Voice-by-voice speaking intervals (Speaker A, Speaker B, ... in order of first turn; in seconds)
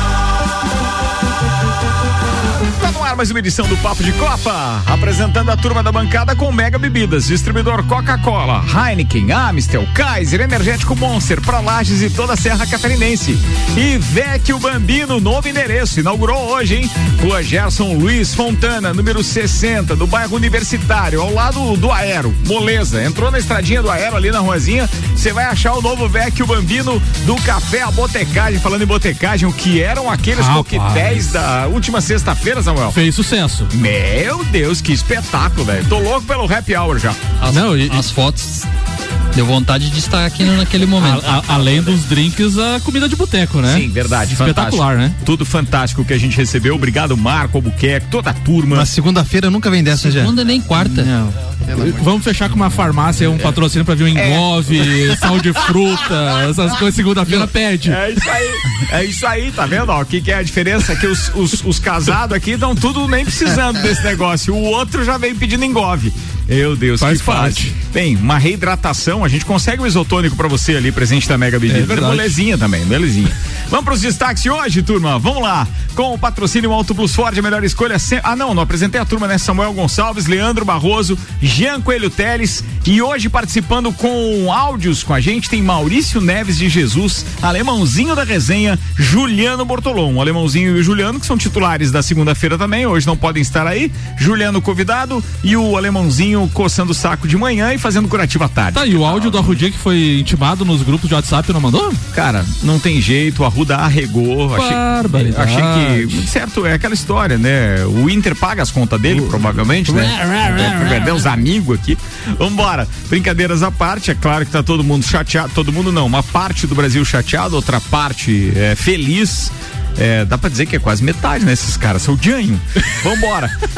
Speaker A: 2.8-33.0, 33.7-37.2, 41.2-42.0, 43.7-48.9, 54.1-54.5, 57.3-99.6, 102.1-123.5
Speaker B: 30.4-31.3, 32.9-33.7, 37.5-38.1, 41.0-45.2, 51.8-58.0, 67.0-67.8, 71.7-72.4, 98.7-102.0, 104.5-106.3, 109.1-111.3
Speaker C: 37.4-38.7, 39.3-41.2, 49.9-51.1
Speaker D: 48.7-52.1